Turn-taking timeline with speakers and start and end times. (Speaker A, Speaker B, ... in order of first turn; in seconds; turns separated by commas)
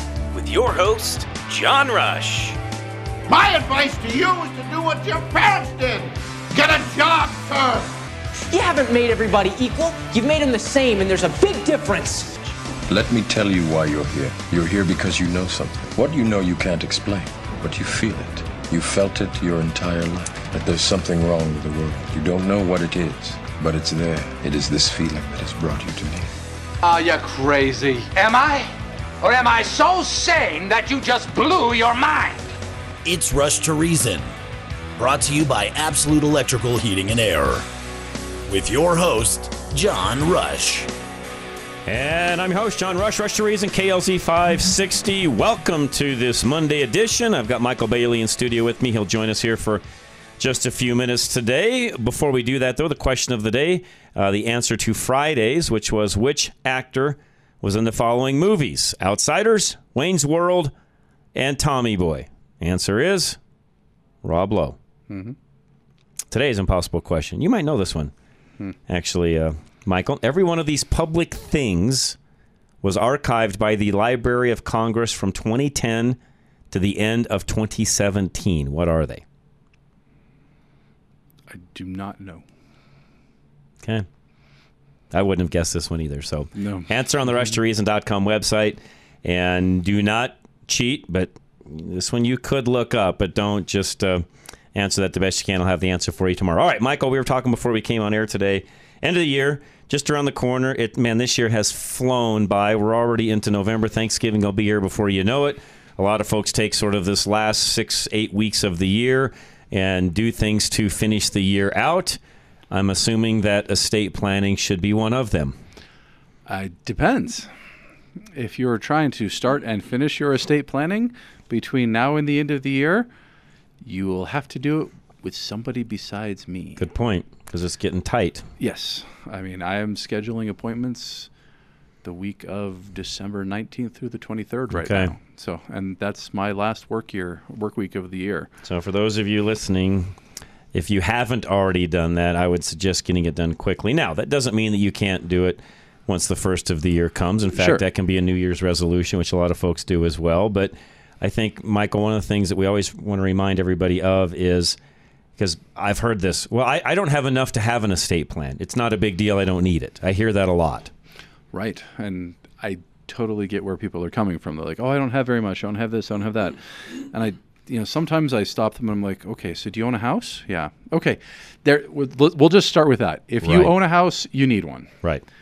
Speaker A: 0.3-2.6, Speaker B: 3.3-7.9, Speaker C: 8.5-12.5, Speaker D: 12.9-26.3, Speaker E: 26.8-32.5, Speaker F: 33.0-34.3, Speaker F: 35.0-37.7, Speaker F: 38.5-40.9, Speaker G: 41.9-49.8, Speaker G: 50.4-60.7, Speaker G: 61.4-63.4, Speaker G: 64.2-64.8, Speaker H: 65.1-65.3, Speaker G: 66.3-68.1, Speaker G: 68.9-72.2, Speaker G: 72.8-76.2, Speaker G: 76.7-79.2, Speaker H: 81.5-82.5, Speaker G: 85.1-112.2, Speaker H: 86.6-87.6, Speaker G: 112.7-115.6, Speaker H: 116.5-117.7, Speaker H: 118.3-123.1, Speaker H: 123.8-126.8, Speaker G: 126.8-128.5, Speaker H: 128.6-131.3, Speaker H: 132.0-138.5, Speaker G: 134.7-135.1, Speaker G: 138.6-140.2, Speaker G: 140.7-154.8, Speaker H: 147.6-147.8, Speaker G: 155.4-160.9, Speaker H: 161.5-175.2, Speaker G: 173.4-173.7